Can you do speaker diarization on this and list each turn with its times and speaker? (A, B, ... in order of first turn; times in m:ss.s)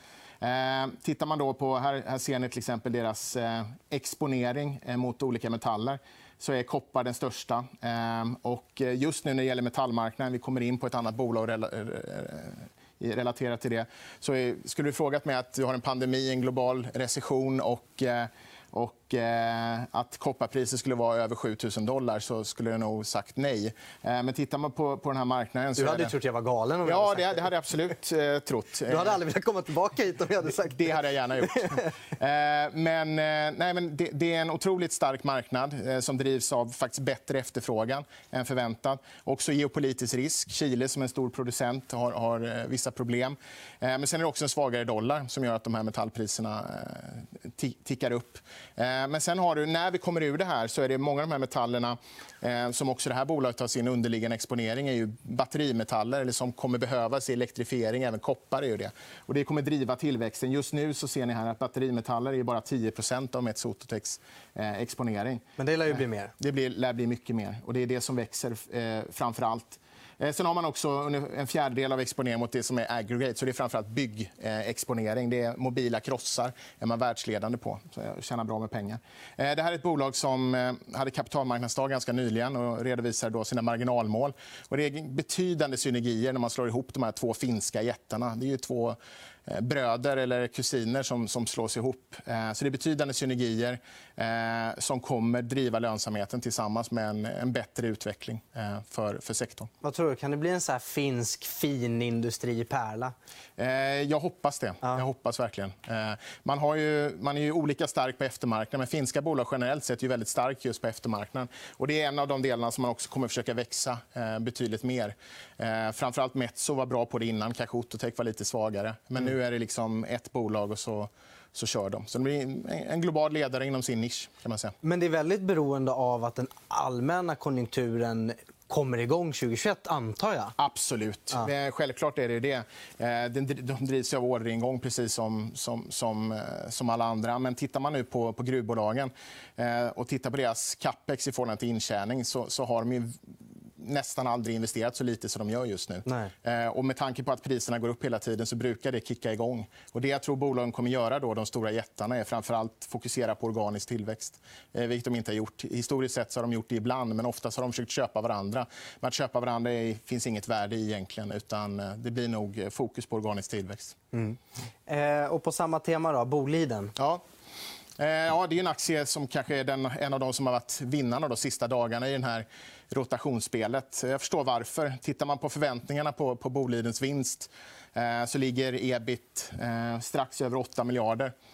0:00.4-0:26.1 A
0:25.8-0:27.5 B
0:26.8-0:29.2 A
0:28.9-0:31.8 B
0:30.6-1:39.7 A
1:05.6-1:06.3 B
1:39.8-1:43.1 B
1:43.6-2:04.7 A
2:04.8-2:10.5 B
2:10.6-2:44.0 A
2:26.0-2:26.3 B
2:44.1-2:46.9 B
2:47.0-2:47.2 A
2:48.0-3:01.3 A